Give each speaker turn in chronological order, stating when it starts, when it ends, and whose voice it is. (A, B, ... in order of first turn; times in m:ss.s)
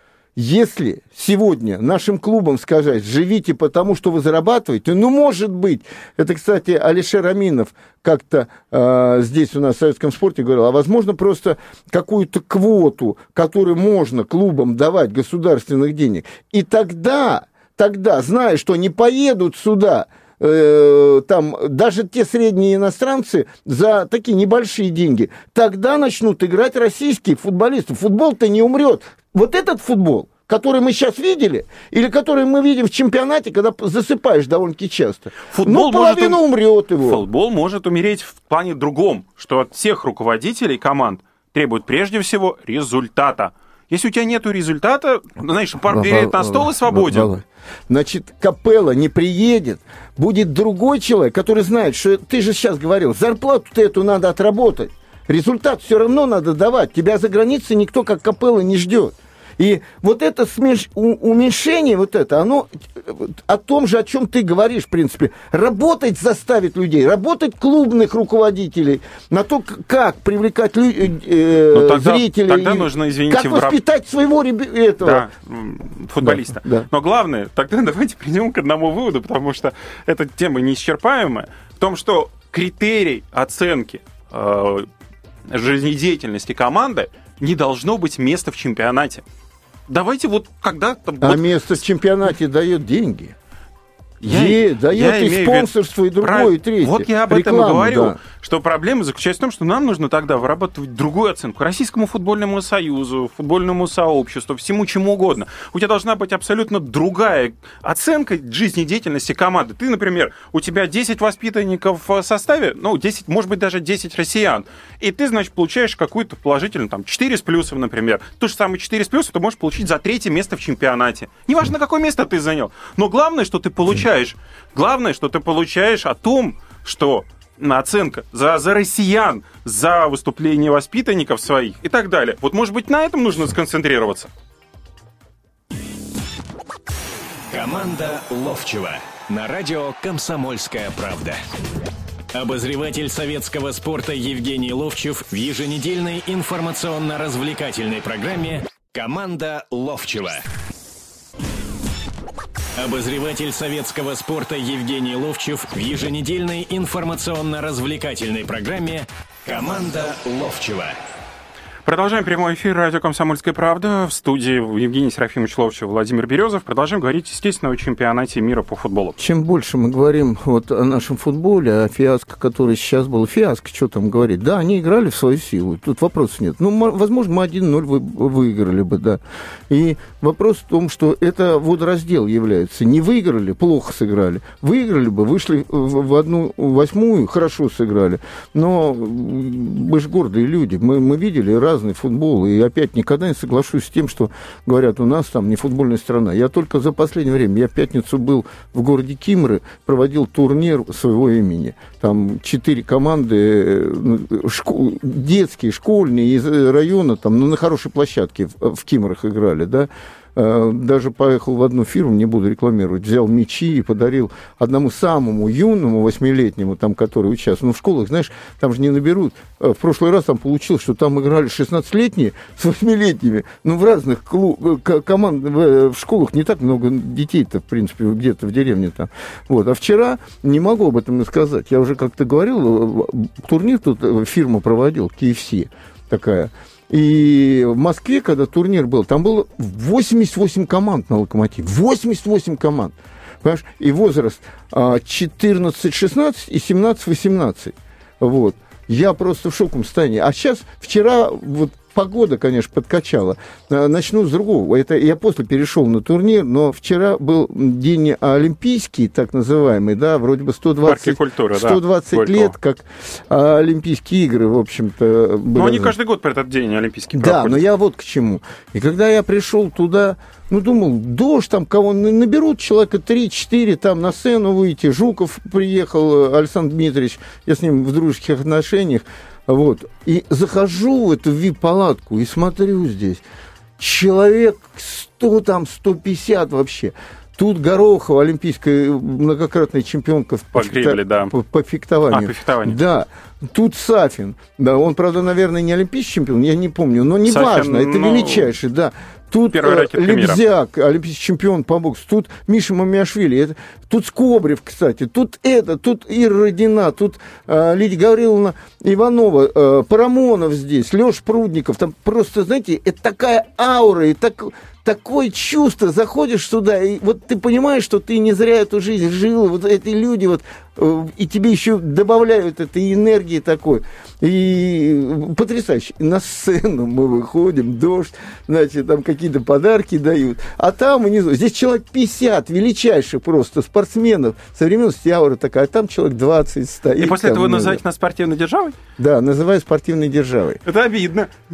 0:00.4-0:37.2 A
0:35.5-0:36.4 B
0:37.0-0:47.3 B
0:45.9-1:15.3 A
1:11.7-1:13.8 B
1:15.0-1:24.9 B
1:16.2-1:16.9 A
1:25.5-1:29.2 B
1:29.9-1:31.5 B
1:31.2-1:33.3 A
1:34.2-1:38.2 A
1:34.2-2:14.3 B
2:17.5-2:21.4 C
2:22.3-2:30.4 C
2:32.8-2:41.0 C
2:41.8-2:49.2 B
2:49.2-4:25.9 A
4:20.8-4:22.5 B
4:25.5-4:27.6 B
4:27.1-4:43.2 A
4:43.8-5:37.8 A
4:50.5-4:51.3 B
4:52.1-4:52.8 B
4:57.2-4:58.5 B
4:59.5-5:00.4 B
5:37.0-5:38.8 B
5:39.0-5:40.6 A
5:40.6-5:41.3 B